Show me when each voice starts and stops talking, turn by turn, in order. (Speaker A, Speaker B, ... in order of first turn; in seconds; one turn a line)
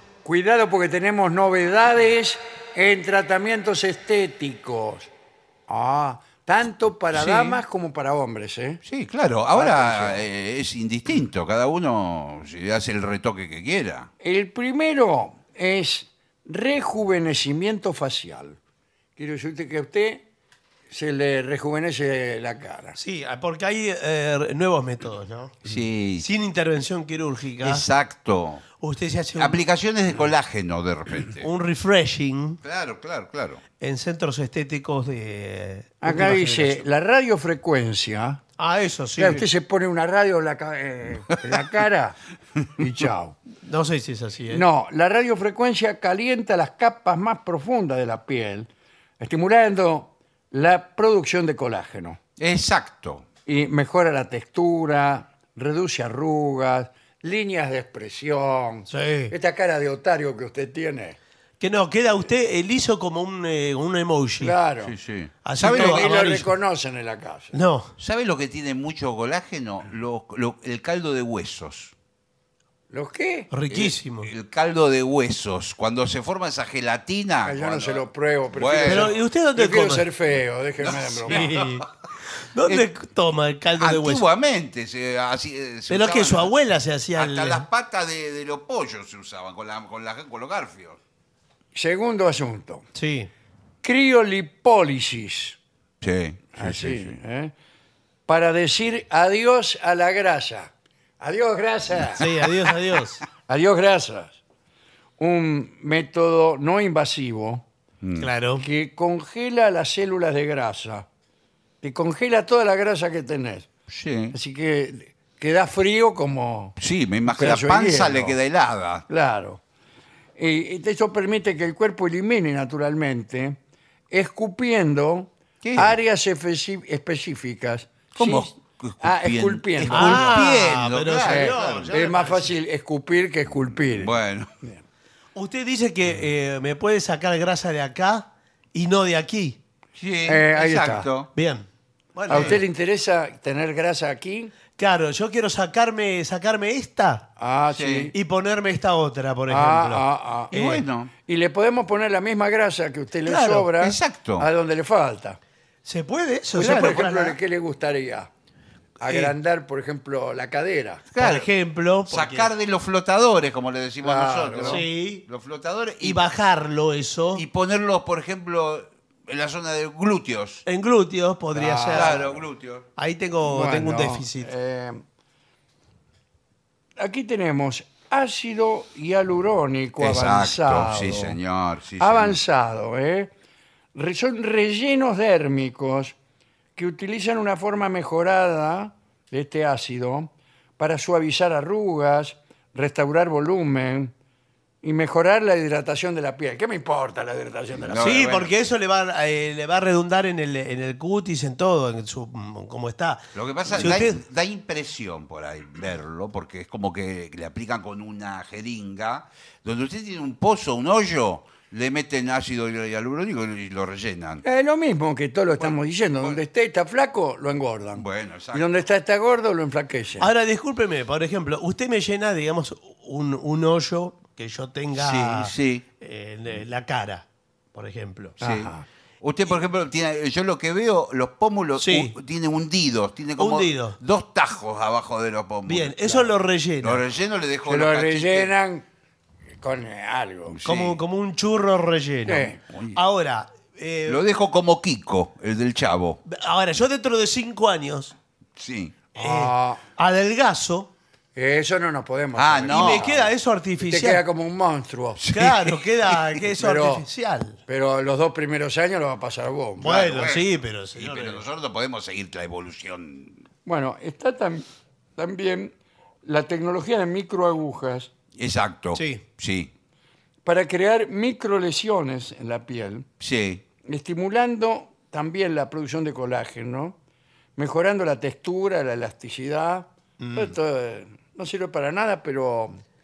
Speaker A: 0.2-5.1
Speaker A: 5.7-8.8
Speaker B: 7.1-7.6
Speaker B: 8.8-14.1
Speaker A: 9.5-10.2
Speaker A: 14.2-18.6
Speaker A: 19.2-20.2
Speaker A: 20.9-22.9
Speaker C: 22.9-27.9
Speaker B: 25.6-26.3
Speaker B: 27.6-28.6
Speaker C: 28.8-29.6
Speaker B: 29.4-31.5
Speaker C: 31.4-32.6
Speaker B: 32.6-33.6
Speaker C: 33.8-36.8
Speaker A: 36.0-38.4
Speaker C: 38.6-39.5
Speaker A: 39.2-42.2
Speaker A: 42.8-43.4
Speaker C: 43.6-44.6
Speaker A: 44.5-52.2
Speaker B: 52.4-53.2
Speaker A: 53.5-61.2
Speaker C: 58.9-59.3
Speaker C: 61.6-64.5
Speaker A: 64.4-64.9
Speaker B: 64.8-66.1
Speaker C: 65.4-66.5
Speaker A: 65.6-67.5
Speaker C: 67.5-67.9
Speaker B: 68.0-71.9
Speaker A: 72.9-73.5
Speaker C: 73.5-74.3
Speaker B: 73.7-79.2
Speaker A: 77.4-81.5
Speaker C: 78.8-80.0
Speaker B: 80.8-81.8
Speaker C: 81.3-81.9
Speaker C: 82.5-84.2
Speaker B: 83.8-86.5
Speaker C: 85.9-87.7
Speaker B: 87.2-91.0
Speaker A: 91.7-92.8
Speaker C: 92.9-93.3
Speaker A: 93.8-95.6
Speaker B: 96.0-97.1
Speaker A: 96.5-97.5
Speaker A: 98.3-102.3
Speaker C: 102.2-103.2
Speaker A: 103.5-104.4
Speaker A: 105.2-107.6
Speaker B: 108.0-108.3
Speaker C: 108.2-108.6
Speaker A: 108.6-111.0
Speaker A: 111.8-113.7
Speaker B: 113.9-114.3
Speaker A: 114.3-116.8
Speaker B: 116.8-119.0
Speaker A: 117.3-118.3
Speaker A: 119.1-119.6
Speaker A: 120.4-123.6
Speaker A: 124.1-130.4
Speaker B: 125.6-126.0
Speaker B: 128.1-132.0
Speaker C: 129.9-132.5
Speaker A: 131.2-134.8
Speaker B: 133.9-134.5
Speaker C: 135.3-139.6
Speaker B: 140.0-141.3
Speaker A: 140.2-141.1
Speaker C: 141.3-142.6
Speaker B: 142.3-142.6
Speaker A: 142.3-144.5
Speaker C: 144.8-147.3
Speaker A: 147.4-148.1
Speaker B: 147.7-148.1
Speaker C: 148.1-150.8
Speaker A: 149.5-150.6
Speaker B: 150.5-151.1
Speaker A: 151.2-155.4
Speaker C: 153.2-153.7
Speaker B: 153.8-154.5
Speaker C: 155.8-157.4
Speaker B: 156.6-157.1
Speaker A: 156.6-158.3
Speaker A: 159.0-161.0
Speaker C: 159.0-159.3
Speaker B: 161.1-161.5
Speaker C: 161.2-162.5
Speaker B: 162.1-166.4
Speaker A: 164.0-164.8
Speaker C: 164.6-165.2
Speaker C: 166.0-167.4
Speaker B: 167.3-170.6
Speaker C: 170.6-172.2
Speaker A: 171.5-172.4
Speaker B: 171.9-172.9
Speaker C: 173.0-174.5
Speaker A: 173.4-175.0
Speaker A: 177.0-181.4
Speaker B: 180.0-182.4
Speaker A: 182.0-183.3
Speaker A: 183.9-186.2
Speaker A: 186.8-194.1
Speaker A: 194.8-198.2
Speaker B: 197.8-198.5
Speaker C: 198.0-204.2
Speaker B: 203.3-214.4
Speaker A: 214.4-220.3
Speaker B: 215.6-216.4
Speaker B: 217.9-218.7
Speaker C: 220.2-228.3
Speaker B: 225.0-225.8
Speaker B: 228.4-236.2
Speaker A: 228.4-228.8
Speaker C: 231.8-232.1
Speaker C: 233.4-234.0
Speaker C: 235.7-237.0
Speaker B: 236.8-238.5
Speaker A: 237.7-238.8
Speaker A: 239.6-240.6
Speaker B: 240.5-241.0
Speaker C: 240.6-244.2
Speaker A: 242.2-242.6
Speaker B: 242.7-243.0
Speaker B: 244.1-246.2
Speaker C: 246.2-248.1
Speaker B: 248.6-249.0
Speaker A: 249.1-249.8
Speaker C: 249.2-250.9
Speaker A: 251.3-255.2
Speaker B: 252.3-253.1
Speaker C: 252.7-254.2
Speaker B: 255.2-256.1
Speaker C: 255.3-257.6
Speaker A: 256.5-257.1
Speaker A: 257.7-259.9
Speaker C: 259.8-261.4
Speaker B: 259.8-263.4
Speaker A: 263.6-264.6
Speaker A: 265.2-268.1
Speaker B: 268.4-269.7
Speaker C: 268.9-269.2
Speaker A: 270.4-273.1
Speaker B: 273.2-273.6
Speaker A: 273.8-276.9
Speaker A: 277.6-282.8
Speaker C: 280.2-280.5